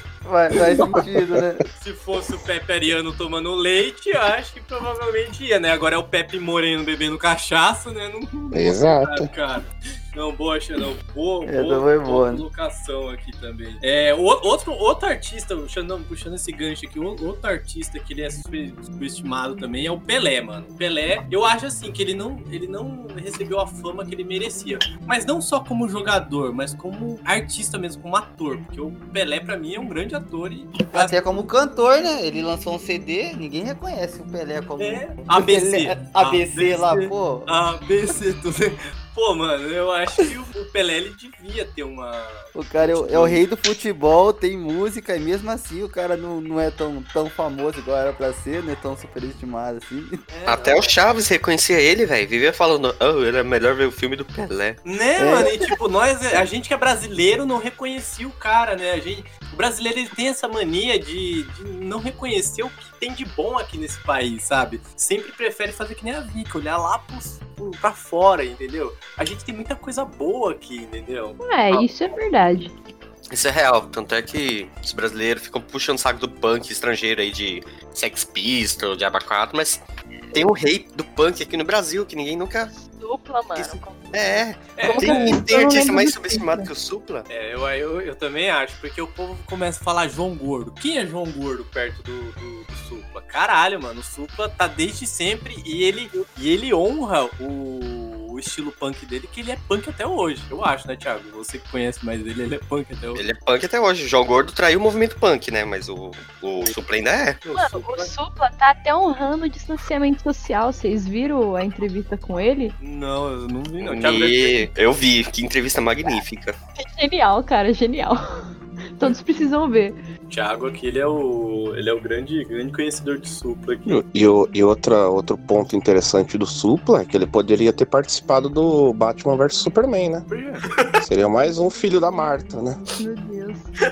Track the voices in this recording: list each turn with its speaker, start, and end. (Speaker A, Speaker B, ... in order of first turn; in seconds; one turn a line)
Speaker A: 0.2-1.6
Speaker B: 1.7-31.2
Speaker C: 8.5-9.3
Speaker A: 11.4-12.4
Speaker A: 30.9-37.5
Speaker B: 34.8-43.4
Speaker A: 42.5-50.2
Speaker B: 50.3-51.0
Speaker D: 50.5-54.8
Speaker B: 54.8-71.4
Speaker A: 55.2-55.5
Speaker E: 71.4-72.7
Speaker D: 73.3-79.8
Speaker D: 80.3-82.7
Speaker E: 82.9-84.2
Speaker D: 83.5-87.2
Speaker B: 84.8-85.4
Speaker E: 84.8-86.7
Speaker B: 87.3-103.3
Speaker D: 103.1-107.4
Speaker B: 107.4-108.1
Speaker E: 107.5-112.7
Speaker B: 112.8-114.7
Speaker D: 113.8-116.6
Speaker E: 116.8-120.0
Speaker B: 120.3-124.0
Speaker C: 123.8-130.3
Speaker B: 130.3-130.7
Speaker C: 131.0-132.8
Speaker E: 133.0-133.7